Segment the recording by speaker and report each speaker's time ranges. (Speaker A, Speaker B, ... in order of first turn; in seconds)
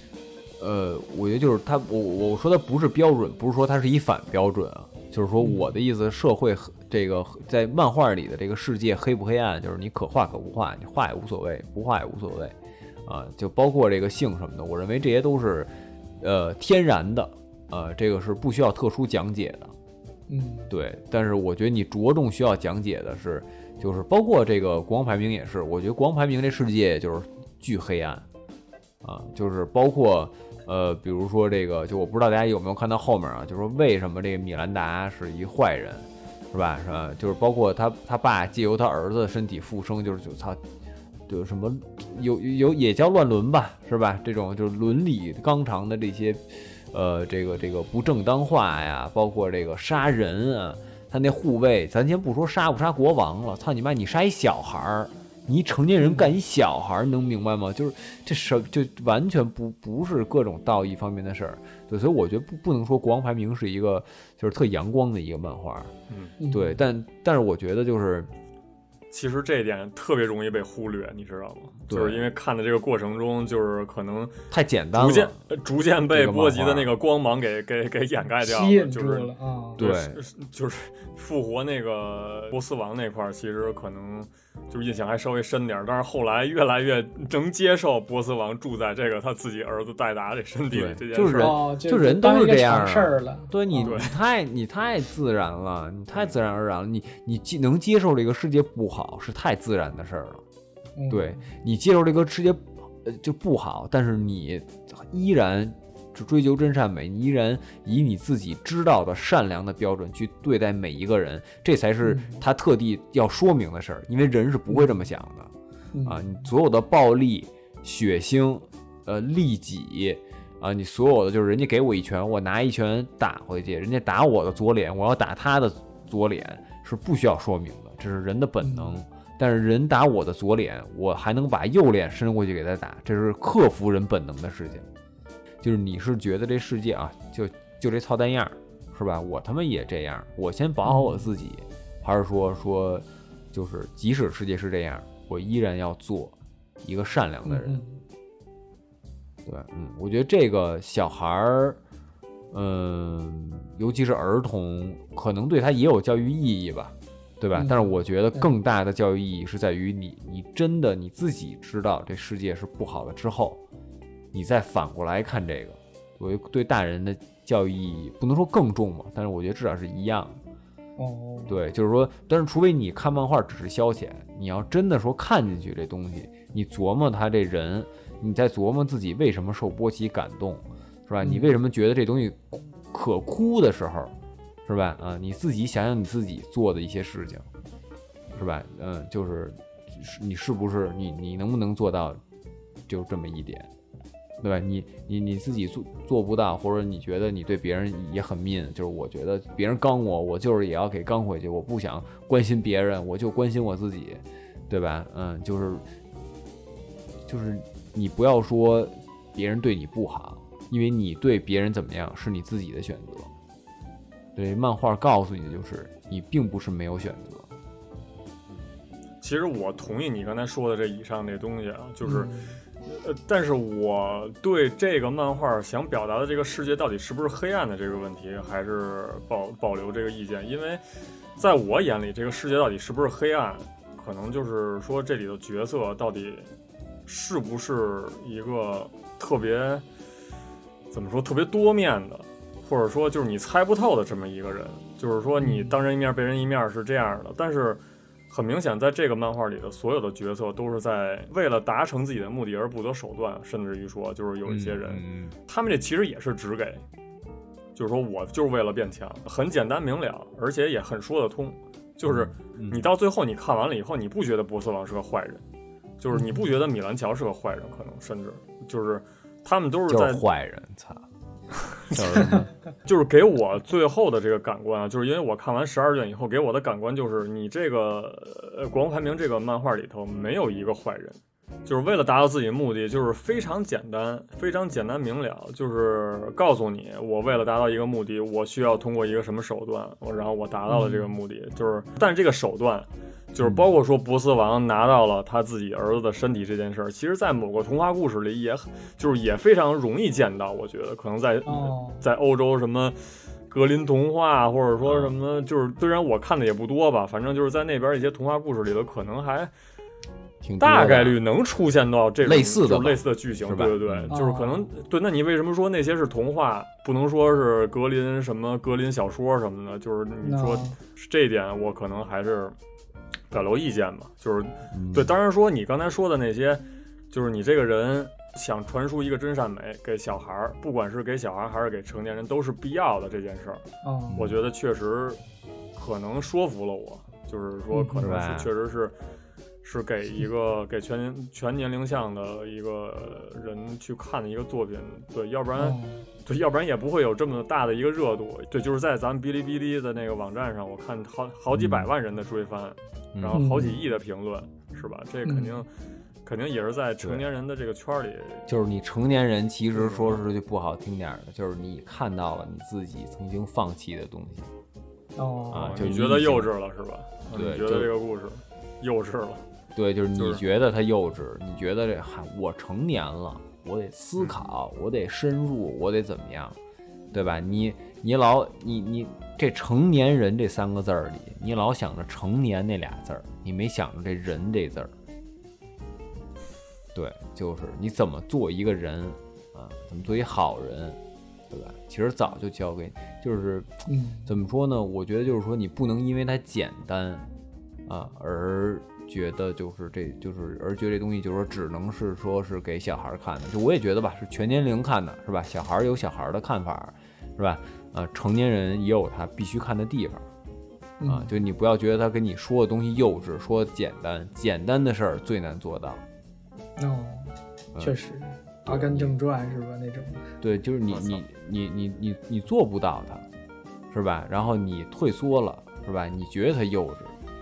Speaker A: 0.6-19.7, 20.7-28.2, 29.0-40.6, 41.3-65.9, 66.5-68.3, 71.9-72.3, 74.5-75.3, 76.1-77.0, 79.8-80.2, 90.7-100.4, 101.1-115.5, 116.0-134.9, 135.6-147.8, 149.4-151.8, 152.5-163.6, 164.3-170.4, 171.5-184.1, 184.7-187.5, 188.3-192.2, 192.9-193.7, 194.4-205.8, 207.3-213.3, 214.4-217.5, 254.5-255.3, 262.1-262.9, 269.9-271.1, 271.9-272.5, 293.4-293.7, 304.8-305.1, 310.4-311.2, 312.2-314.1, 324.7-325.1, 334.1-334.4, 338.0-338.5, 351.5-351.9, 353.1-353.7, 358.5-364.5, 365.5-366.5, 367.3-367.9, 369.8-376.6, 377.1-384.9, 386.9-391.0, 391.5-393.7, 394.3-397.3, 397.9-410.3, 411.1-416.0, 418.6-419.2, 420.4-423.3, 423.9-427.1
Speaker B: 5.4-5.8, 20.3-20.7, 56.0-56.3, 66.4-66.8, 78.4-79.8, 91.4-94.0, 101.0-101.4, 112.0-112.4, 115.9-116.2, 128.6-129.0, 140.9-141.3, 147.4-148.0, 157.6-158.5, 171.0-171.5, 181.2-181.6, 222.0-222.6, 245.4-245.8, 266.1-266.5, 290.7-291.2, 301.4-302.0, 314.1-314.7, 320.2-320.8, 333.8-334.3, 337.7-338.1, 345.6-346.0, 353.3-353.8, 355.2-355.6, 365.2-365.8, 393.9-394.3, 411.0-411.3, 416.8-420.3
Speaker C: 69.1-74.4, 75.0-91.6, 93.8-94.1, 219.2-222.3, 222.8-230.8, 231.4-236.5, 237.1-239.8, 240.9-256.8, 257.8-265.4, 266.0-270.2, 271.9-272.3, 272.9-309.5, 310.6-322.6, 323.3-333.6, 334.1-335.2, 335.8-338.9, 339.6-355.7, 356.2-358.5, 359.8-360.2, 365.6-369.4, 370.2-370.4, 420.9-421.2